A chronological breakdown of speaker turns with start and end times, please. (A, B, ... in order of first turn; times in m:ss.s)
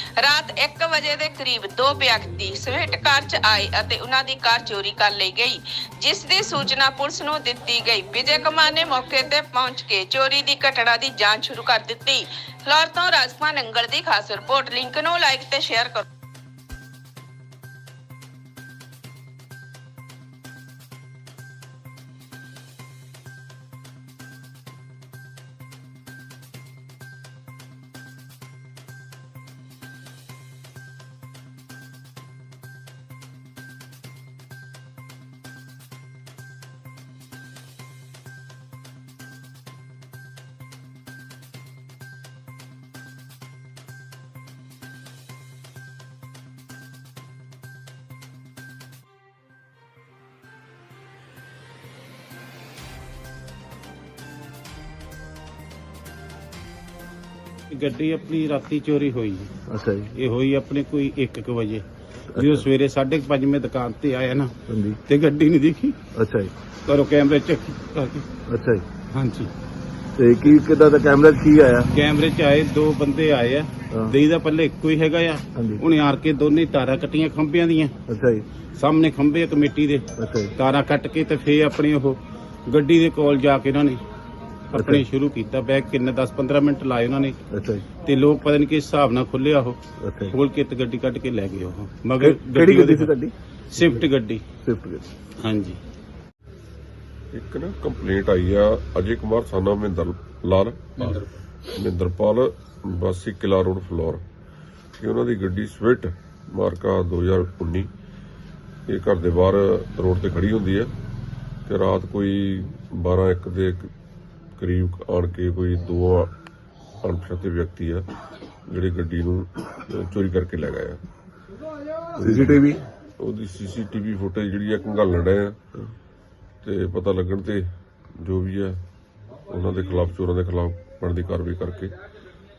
0:00.2-0:16.0 A
0:57.7-0:59.5 B
0:59.7-1:00.1 C
1:00.1-1:01.8 B
1:02.3-1:02.6 C
1:02.3-1:04.5 B
1:04.7-1:05.0 C
1:05.0-1:06.0 B
1:06.1-1:06.5 C
1:06.8-1:08.2 B
1:08.5-1:08.8 C
1:09.1-1:09.5 B
1:10.2-1:11.9 C
1:11.9-1:17.9 B
1:13.9-1:14.2 C
1:15.5-1:15.8 C
1:18.1-1:18.4 C
1:18.8-1:24.0 B
1:20.2-1:20.5 C
1:24.7-1:27.4 B
1:24.7-1:25.0 C
1:27.5-1:27.8 C
1:28.0-1:33.1 B
1:30.0-1:30.4 C
1:32.2-1:33.3 C
1:33.7-1:34.4 B
1:34.6-1:35.0 C
1:35.4-1:35.8 B
1:37.3-1:41.2 D
1:41.0-1:41.3 B
1:41.7-1:44.2 D
1:45.0-1:47.9 D
1:48.9-1:50.9 D
1:51.6-1:53.9 D
1:54.6-1:56.3 D
1:57.0-1:58.0 D
1:58.7-2:01.0 D
2:02.2-2:05.6 D
2:02.2-2:02.8 C
2:06.6-2:07.6 D
2:08.2-2:08.8 D
2:09.5-2:12.0 D